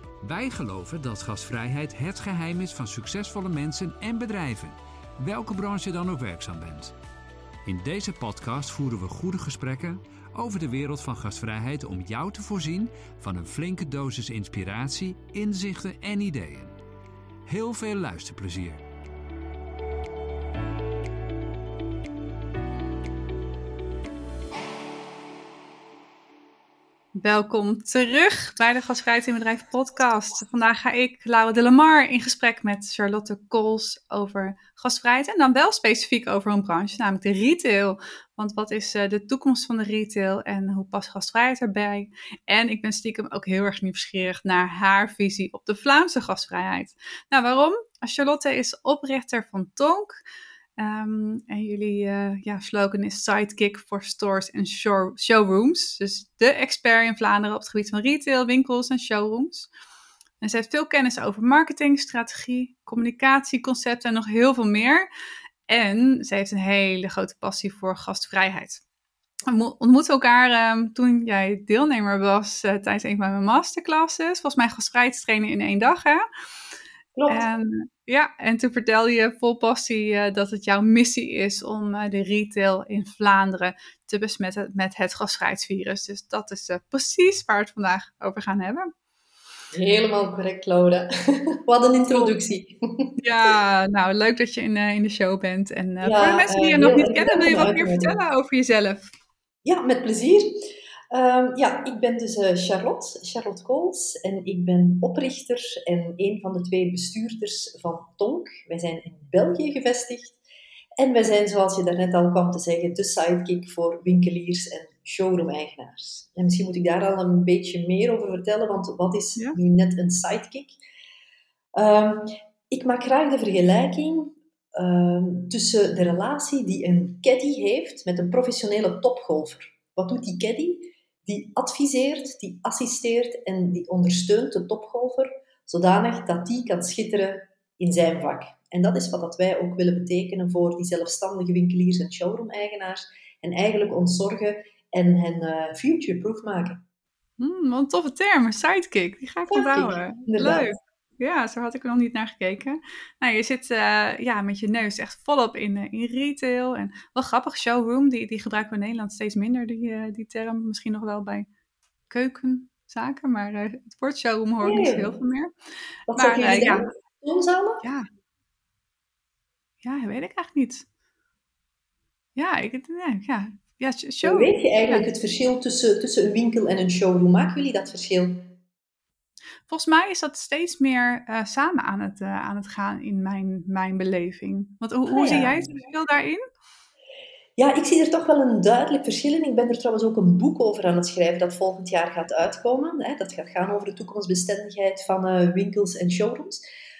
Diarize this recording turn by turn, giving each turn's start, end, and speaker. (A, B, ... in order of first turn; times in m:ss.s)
0:00.2-0:07.0 A
0:07.6-0:16.8 A
0:17.5-0:18.8 A
0:27.1-0:50.2 B
0:50.8-0:59.7 B
1:00.4-1:05.1 B
1:05.7-1:08.8 B
1:09.5-1:16.2 B
1:17.2-1:17.5 C
1:17.3-1:28.9 B
1:29.7-1:33.2 C
1:33.2-1:39.1 B
1:36.0-1:38.2 C
1:39.6-1:50.4 C
1:51.0-2:00.8 C
2:01.8-2:26.8 C
2:27.4-2:41.5 B
2:29.5-2:30.7 C
2:42.1-2:45.5 B
2:44.6-2:45.1 C
2:46.1-2:47.8 C
2:46.2-2:46.9 B
2:49.8-2:50.8 B
2:52.4-2:55.1 B
2:54.2-2:58.5 C
2:59.7-3:06.4 B
3:05.1-3:05.6 C
3:07.6-3:16.6 C